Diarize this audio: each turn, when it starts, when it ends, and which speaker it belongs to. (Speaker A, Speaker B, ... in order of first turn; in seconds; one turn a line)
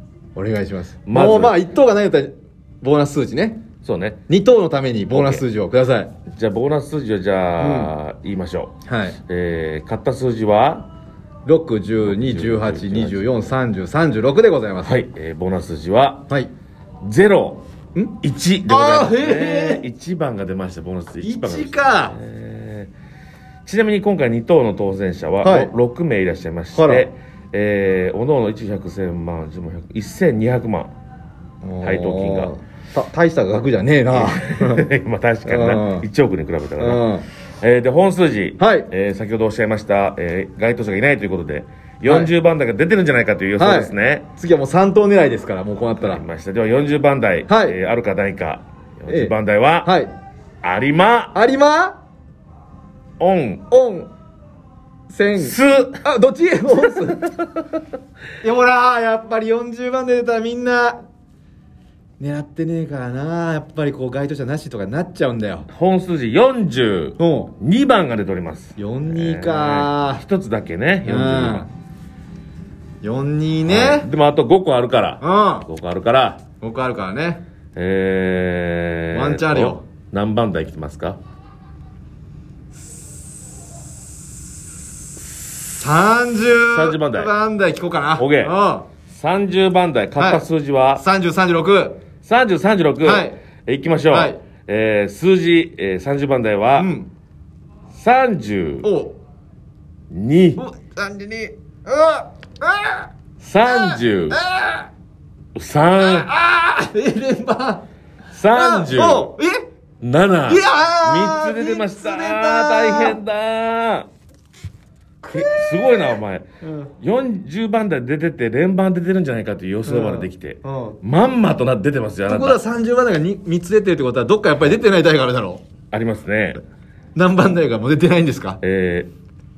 Speaker A: 0.3-3.6
Speaker B: 1.1-1.6
Speaker B: 3.8-4.2
Speaker A: 4.3-6.1
Speaker B: 5.1-5.4
Speaker B: 6.3-8.7
Speaker A: 7.6-7.9
Speaker A: 8.8-9.2
Speaker B: 9.3-10.9
Speaker A: 11.5-15.0
Speaker B: 12.0-13.5
Speaker B: 14.8-16.3
Speaker B: 17.0-17.6
Speaker B: 18.2-22.9
Speaker A: 18.7-19.9
Speaker A: 21.2-22.2
Speaker B: 23.7-30.9
Speaker A: 25.4-25.7
Speaker A: 26.7-27.1
Speaker A: 31.6-34.9
Speaker B: 31.8-32.5
Speaker B: 34.1-37.1
Speaker A: 35.5-36.1
Speaker A: 36.8-37.3
Speaker B: 37.6-44.3
Speaker A: 38.6-38.9
Speaker A: 42.1-42.3
Speaker A: 43.6-46.2
Speaker B: 45.9-49.9
Speaker A: 47.5-47.8
Speaker A: 49.1-50.1
Speaker B: 50.6-51.4
Speaker A: 51.3-52.0
Speaker B: 53.2-53.6
Speaker A: 53.7-54.1
Speaker A: 55.1-57.4
Speaker B: 55.4-56.0
Speaker B: 56.7-57.6
Speaker A: 58.4-61.0
Speaker A: 62.2-65.7
Speaker B: 65.7-71.7
Speaker A: 67.2-67.5
Speaker A: 68.8-70.2
Speaker A: 71.0-71.7
Speaker A: 73.0-74.1
Speaker B: 73.7-76.4
Speaker A: 75.2-75.7
Speaker A: 76.6-77.4
Speaker B: 77.8-81.2
Speaker A: 79.1-79.8
Speaker A: 85.8-88.9
Speaker B: 86.7-87.3
Speaker B: 88.2-88.5
Speaker B: 89.1-91.0
Speaker A: 90.2-90.5
Speaker A: 91.0-92.0
Speaker B: 92.2-96.9
Speaker A: 93.0-93.4
Speaker A: 94.1-94.4
Speaker A: 96.8-97.1
Speaker B: 97.9-98.9
Speaker A: 98.8-99.2
Speaker B: 100.1-100.6
Speaker A: 100.6-103.1
Speaker B: 103.4-104.4
Speaker A: 103.6-104.9
Speaker B: 105.5-106.3
Speaker A: 106.0-107.8
Speaker B: 108.3-109.3
Speaker A: 108.5-109.7
Speaker B: 110.0-114.1
Speaker A: 110.5-113.2
Speaker A: 115.2-116.9
Speaker B: 115.3-116.5
Speaker B: 117.0-122.6
Speaker A: 119.9-121.0
Speaker A: 122.3-125.6
Speaker B: 125.9-126.6
Speaker A: 127.2-128.6
Speaker B: 128.6-129.1